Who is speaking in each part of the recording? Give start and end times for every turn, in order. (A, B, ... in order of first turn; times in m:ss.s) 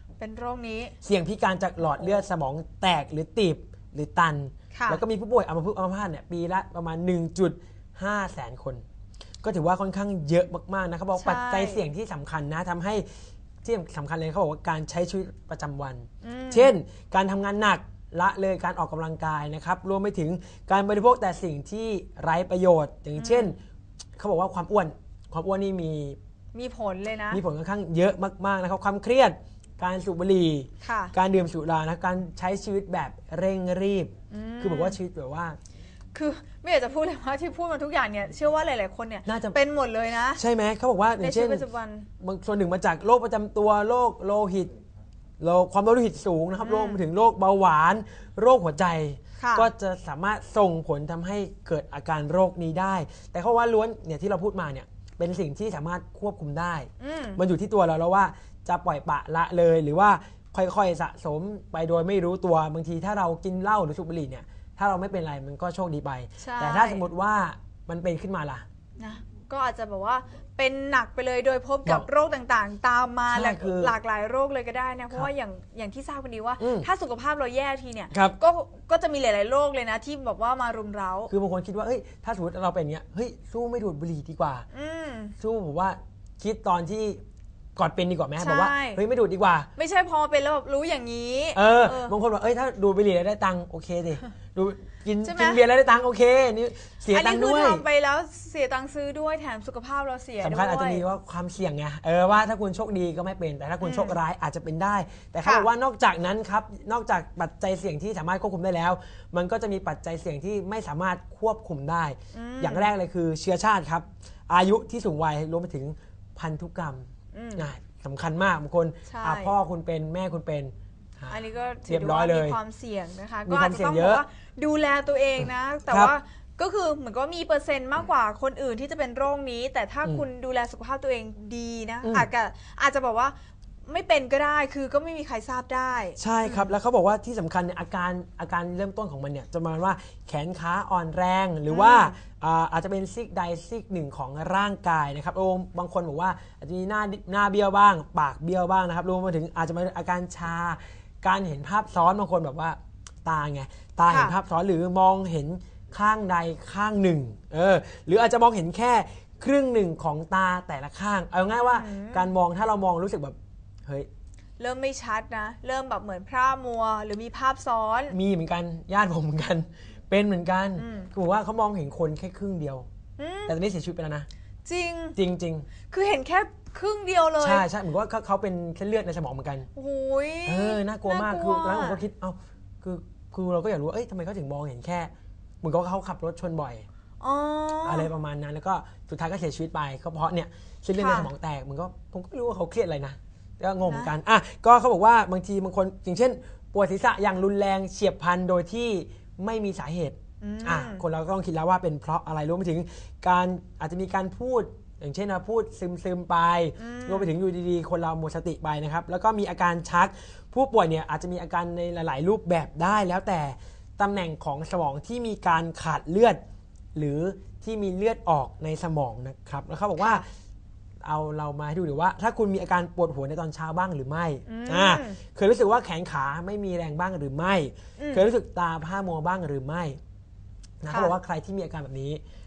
0:00.2-0:00.9 A
0:01.0-0:08.8 B
0:04.7-0:05.0 A
0:09.4-0:13.1 B
0:11.2-0:11.8 A
0:13.6-0:23.6 B
0:16.2-0:16.7 A
0:23.2-0:23.5 A
0:24.2-0:26.2 B
0:26.5-0:27.4 A
0:27.3-0:35.6 B
0:30.8-0:31.1 A
0:34.3-0:35.0 A
0:36.1-0:40.4 A
0:39.2-0:39.6 B
0:40.4-0:41.6 B
0:41.2-0:42.1 A
0:42.2-0:44.7 B
0:45.4-1:08.6 B
0:46.6-0:47.0 A
0:49.4-0:49.7 A
0:57.0-0:57.4 A
1:06.4-1:07.0 A
1:09.0-1:21.3 A
1:13.3-1:13.9 B
1:16.6-1:16.9 B
1:18.1-1:18.4 B
1:21.3-1:24.7 B
1:24.7-1:25.3 A
1:25.4-1:27.2 B
1:27.8-1:29.7 B
1:28.4-1:29.0 A
1:29.8-1:32.1 A
1:31.6-1:37.8 B
1:35.2-1:35.6 A
1:37.1-1:41.0 A
1:40.4-2:02.6 B
1:43.8-1:44.2 A
1:52.3-1:52.9 A
1:57.3-1:57.6 A
1:59.1-1:59.5 A
2:01.3-2:13.4 A
2:03.4-2:04.2 B
2:05.9-2:06.1 B
2:12.0-2:12.3 B
2:13.9-2:16.7 A
2:16.2-2:44.1 B
2:21.7-2:22.2 A
2:34.1-2:34.4 A
2:41.6-2:42.3 A
2:44.6-2:48.2 A
2:48.1-2:52.9 B
2:50.8-2:51.1 A
2:53.2-2:53.6 A
2:53.5-2:54.3 B
2:54.6-2:55.2 A
2:55.2-2:55.7 B
2:55.9-2:57.6 A
2:57.4-2:59.7 B
2:59.7-3:02.0 A
3:00.4-3:06.9 B
3:07.2-3:08.1 A
3:07.8-3:36.4 B
3:11.0-3:11.3 A
3:13.9-3:14.1 A
3:20.4-3:21.0 A
3:26.8-3:27.3 A
3:36.9-3:40.3 B
3:40.0-3:40.2 A
3:41.0-3:50.0 B
3:44.4-3:45.2 A
3:48.0-3:48.2 A
3:50.8-3:52.2 B